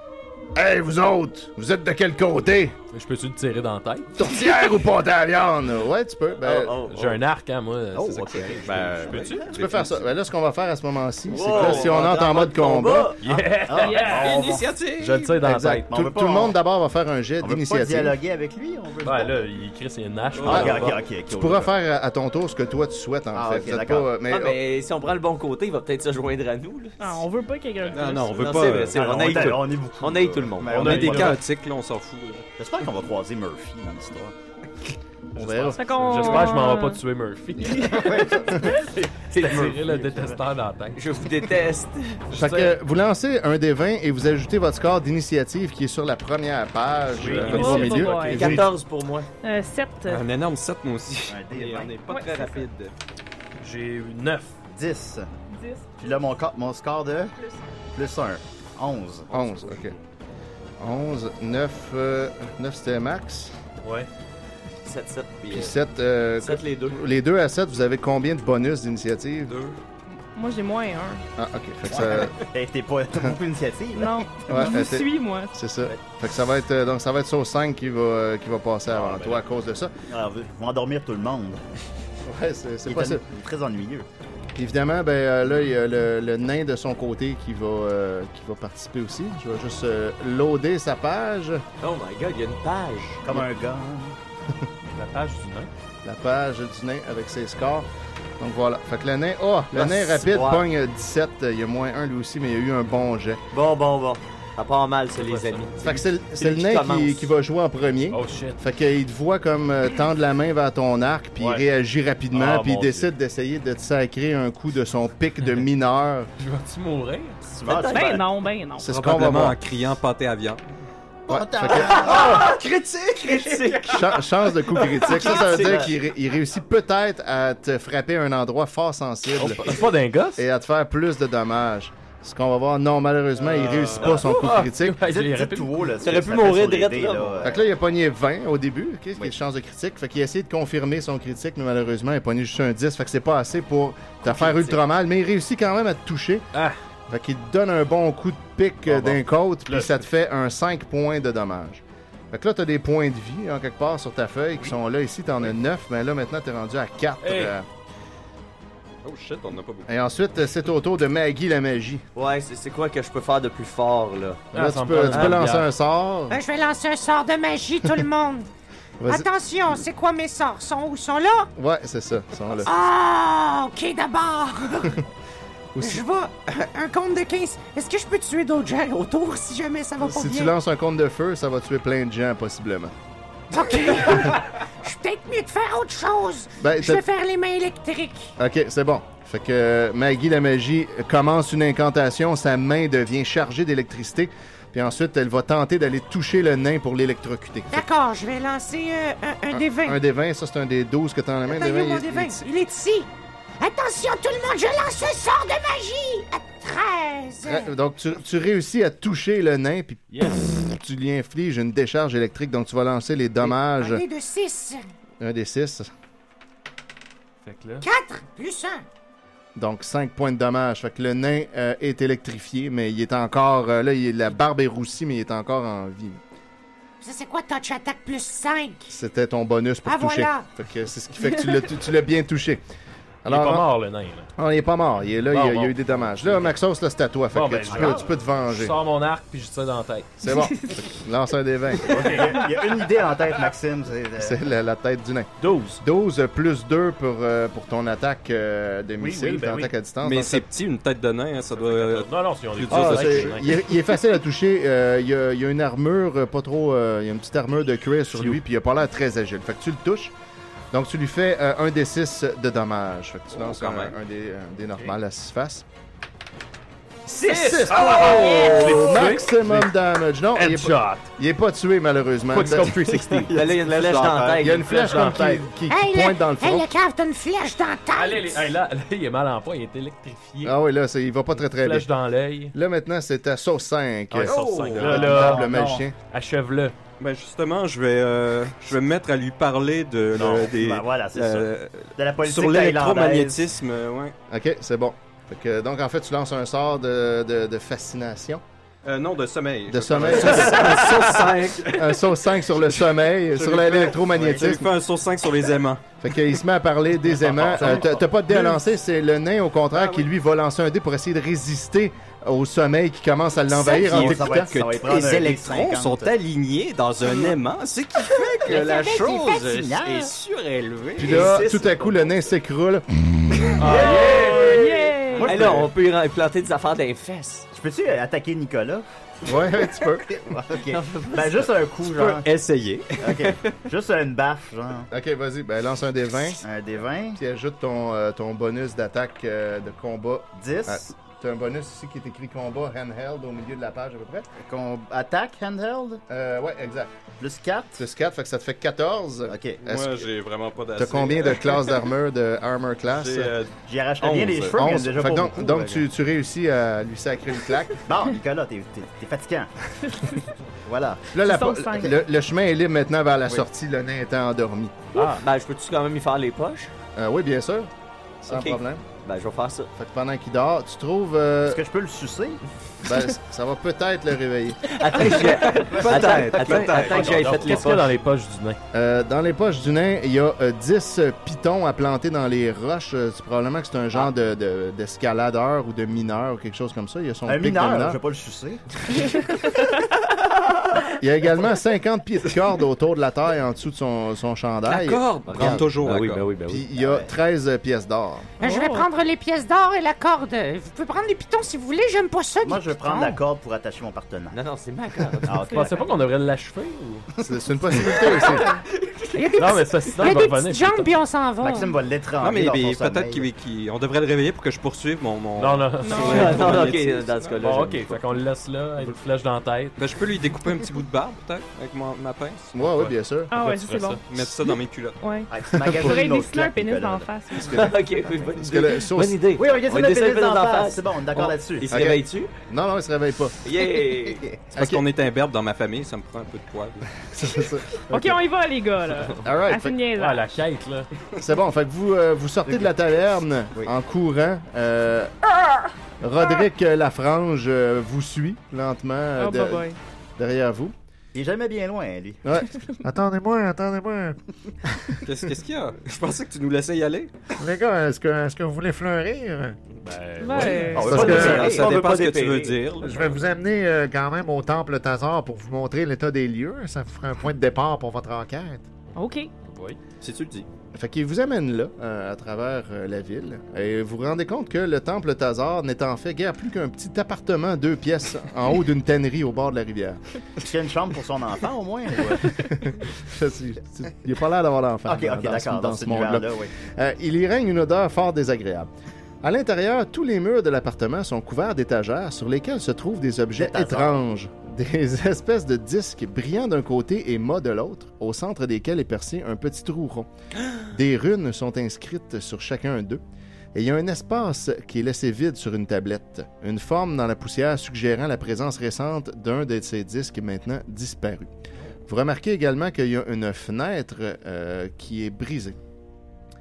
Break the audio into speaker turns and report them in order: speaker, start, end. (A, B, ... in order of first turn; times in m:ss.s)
0:00.5-0:02.7 A
0:02.9-0:04.1 B
0:04.2-0:06.8 A
0:06.4-0:07.2 C
0:06.9-0:09.6 B
0:07.9-0:09.8 D
0:08.5-0:10.0 E
0:09.6-0:13.1 A
0:11.3-0:13.2 C
0:11.3-0:12.2 D
0:13.2-0:14.4 B
0:13.2-0:14.7 D
0:13.8-0:14.4 F
0:14.1-0:15.3 E
0:15.0-0:15.9 B
0:15.4-0:18.2 A
0:15.9-0:16.6 D
0:17.4-0:19.5 D
0:19.0-0:21.0 B
0:20.3-0:20.9 E
0:20.4-0:21.7 D
0:21.3-0:24.6 A
0:23.3-0:24.1 D
0:24.2-0:27.2 C
0:27.0-0:28.6 F
0:27.9-0:29.5 E
0:28.3-0:31.3 C
0:28.9-0:31.4 D
0:30.7-0:31.4 B
0:30.7-0:32.4 E
0:32.6-0:34.3 D
0:35.4-0:35.9 A
0:35.4-0:41.0 B
0:35.4-0:36.1 D
0:35.7-0:37.0 F
0:37.9-0:40.4 D
0:39.3-0:39.8 C
0:41.0-0:42.2 C
0:42.3-0:42.8 B
0:42.3-0:48.8 A
0:47.1-0:48.6 B
0:47.2-0:48.2 E
0:47.4-0:48.5 F
0:48.3-0:49.3 C
0:49.4-0:50.2 F
0:50.0-0:52.9 E
0:51.3-0:51.9 D
0:52.0-0:52.6 F
0:53.6-0:54.5 B
0:54.7-0:55.3 D
0:55.5-0:56.1 F
0:56.0-0:57.3 D
0:57.4-0:57.6 F
0:57.9-0:59.3 D
0:59.3-0:59.9 A
0:59.4-0:59.8 E
1:00.8-1:03.5 A
1:03.8-1:04.1 B
1:04.8-1:05.8 C
1:05.5-1:09.5 A
1:06.4-1:07.1 C
1:09.5-1:09.8 E
1:10.3-1:11.2 F
1:11.4-1:12.4 A
1:11.9-1:14.3 D
1:13.9-1:15.5 F
1:14.5-1:19.9 A
1:18.9-1:19.4 B
1:20.1-1:21.6 D
1:22.2-1:23.2 A
1:22.8-1:24.0 D
1:24.6-1:31.6 A
1:31.8-1:33.4 C
1:33.2-1:34.2 D
1:34.9-1:35.7 B
1:36.0-1:37.9 A
1:38.4-1:43.4 A
1:39.8-1:40.6 C
1:43.5-1:47.3 C
1:45.2-1:45.7 B
1:45.8-1:56.3 A
1:48.1-1:48.6 B
1:52.3-1:53.1 B
1:56.4-1:57.4 B
1:57.5-1:58.3 D
1:57.6-1:58.2 C
1:57.7-1:58.9 F
1:58.8-1:59.6 A
1:58.8-2:00.6 E
2:01.3-2:03.6 D
2:01.3-2:02.1 A
2:01.7-2:04.2 C
2:03.8-2:09.8 A
2:04.8-2:06.0 C
2:05.2-2:05.8 D
2:09.4-2:10.4 B
2:10.4-2:15.0 A
2:13.4-2:15.8 B
2:15.0-2:17.6 D
2:16.0-2:17.5 C
2:17.4-2:26.5 A
2:24.3-2:24.8 C
2:27.1-2:37.6 A
2:28.8-2:30.0 B
2:37.2-2:37.5 B
2:39.0-2:39.9 E
2:39.9-2:42.0 A
2:42.2-2:44.5 C
2:44.5-2:46.4 A
2:44.5-2:45.7 B
2:46.3-2:48.5 G
2:49.0-2:49.3 A
2:49.0-2:51.5 G
2:51.6-2:52.7 A
2:52.6-2:55.0 G
2:55.7-2:56.0 A
2:55.8-3:00.5 G
3:00.0-3:02.9 A
3:03.5-3:08.3 G
3:06.6-3:07.0 A
3:08.4-3:17.8 A
3:17.7-3:20.0 G
3:19.5-3:22.4 A
3:21.4-3:27.7 G
3:27.4-3:34.0 A
3:30.1-3:30.6 B
3:33.6-3:34.8 G
3:35.2-3:35.9 A
3:37.4-3:37.8 B
3:37.8-3:38.8 G
3:39.5-3:46.2 A
3:47.0-3:48.9 G
3:48.9-3:52.6 A
3:49.8-3:50.5 G
3:53.2-3:53.7 A
3:53.2-3:54.3 B
3:54.4-3:58.8 A
3:55.3-3:56.5 B
3:57.3-4:00.1 B
3:57.7-3:58.0 D
4:00.2-4:02.3 A
4:00.2-4:00.8 F
4:01.9-4:02.4 B
4:01.9-4:04.4 D
4:04.2-4:10.4 A
4:05.4-4:05.8 B
4:09.0-4:09.7 B
4:10.0-4:13.5 E
4:11.5-4:13.5 B
4:12.7-4:20.1 A
4:18.1-4:18.4 B
4:20.7-4:25.6 A
4:23.3-4:24.0 E
4:27.1-4:33.0 A
4:27.1-4:29.7 B
4:27.9-4:28.7 G
4:30.3-4:31.1 B
4:32.3-4:33.6 B
4:33.3-4:34.9 C
4:33.8-4:34.4 D
4:34.4-4:36.7 A
4:34.6-4:35.5 B
4:35.7-4:38.5 G
4:37.9-4:40.6 B
4:40.4-4:41.9 A
4:41.4-4:42.5 B
4:42.5-4:45.9 A
4:44.1-4:46.7 B
4:44.2-4:45.8 D
4:47.0-4:54.1 E
4:50.2-4:50.4 B
4:50.2-4:53.4 D
4:54.3-4:58.4 A
4:58.8-5:02.1 E
4:59.7-5:04.7 A
5:02.7-5:05.8 E
5:04.0-5:04.6 D
5:06.0-5:14.5 A
5:07.3-5:08.0 B
5:07.4-5:07.8 E
5:07.5-5:07.9 D
5:09.7-5:10.1 E
5:13.6-5:16.1 D
5:13.7-5:21.4 E
5:18.4-5:20.1 D
5:18.5-5:19.5 G
5:21.0-5:22.1 C
5:21.0-5:22.8 A
5:23.6-5:24.7 B
5:23.6-5:25.7 D
5:23.6-5:24.4 C
5:23.6-5:24.5 E
5:23.7-5:25.3 F
5:25.2-5:27.5 C
5:25.2-5:25.6 E
5:27.5-5:28.8 D
5:29.2-5:30.1 A
5:30.0-5:32.4 D
5:30.7-5:31.4 C
5:31.8-5:33.3 E
5:33.0-5:34.9 D
5:34.9-5:36.4 A
5:36.4-5:37.2 D
5:37.2-5:44.3 A
5:40.4-5:40.9 D
5:44.4-5:46.0 D
5:46.1-5:46.9 A
5:47.2-5:47.8 D
5:47.8-5:50.1 A
5:49.3-5:49.6 D
5:49.6-5:51.7 E
5:50.8-5:53.3 A
5:52.9-5:54.6 E
5:53.6-5:55.9 D
5:54.5-5:57.8 A
5:57.9-5:59.5 D
6:00.6-6:01.0 D
6:01.1-6:04.8 A
6:01.2-6:02.0 F
6:04.9-6:05.2 B
6:05.1-6:06.7 C
6:07.0-6:07.7 A
6:08.2-6:08.8 A
6:08.3-6:09.7 C
6:09.8-6:11.6 A
6:11.4-6:12.4 D
6:12.8-6:14.8 A
6:14.6-6:17.9 C
6:15.4-6:18.6 B
6:15.4-6:17.5 E
6:15.7-6:16.5 D
6:18.7-6:28.0 A
6:27.2-6:28.6 D
6:31.0-6:35.6 A
6:34.6-6:36.3 E
6:35.2-6:36.7 C
6:36.5-6:38.3 A
6:36.7-6:37.1 D
6:38.4-6:43.2 G
6:38.4-6:38.9 F
6:42.4-6:44.4 D
6:44.3-6:45.4 C
6:45.2-6:45.6 D
6:45.4-6:45.9 F
6:45.5-6:47.1 B
6:47.2-6:48.6 A
6:49.1-6:51.7 G
6:49.4-6:50.9 B
6:51.4-6:53.3 D
6:52.2-6:57.4 E
6:55.4-6:56.7 B
6:55.8-6:56.6 F
6:56.0-6:58.0 C
6:57.4-6:59.8 B
6:59.8-7:02.5 E
7:02.5-7:03.3 A
7:02.7-7:04.0 B
7:03.3-7:04.0 F
7:04.1-7:05.0 E
7:05.0-7:07.7 F
7:05.3-7:07.1 D
7:05.6-7:06.0 A
7:07.4-7:07.7 A
7:07.5-7:12.3 C
7:08.4-7:09.2 A
7:09.3-7:11.8 D
7:11.7-7:13.4 A
7:13.4-7:14.3 C
7:14.5-7:16.9 E
7:14.5-7:14.8 A
7:17.1-7:18.2 A
7:17.9-7:20.3 F
7:19.2-7:19.8 A
7:19.9-7:20.9 B
7:21.2-7:25.1 A
7:26.0-7:30.7 A
7:29.2-7:29.8 F
7:31.1-7:32.2 D
7:32.2-7:32.6 A
7:32.8-7:34.2 H
7:35.0-7:37.1 E
7:37.4-7:39.6 H
7:39.8-7:41.4 B
7:40.2-7:41.4 F
7:40.4-7:43.2 E
7:40.7-7:41.8 D
7:40.9-7:41.4 H
7:40.9-7:42.7 C
7:42.8-7:48.6 H
7:48.9-7:49.3 F
7:49.4-7:49.8 B
7:50.0-7:50.5 E
7:50.7-8:00.0 A
8:00.4-8:02.3 D
8:02.2-8:08.7 A
8:04.8-8:06.5 D
8:09.2-8:20.1 A
8:13.4-8:13.9 D
8:20.7-8:23.0 A
8:23.5-8:31.3 A
8:31.9-8:35.6 A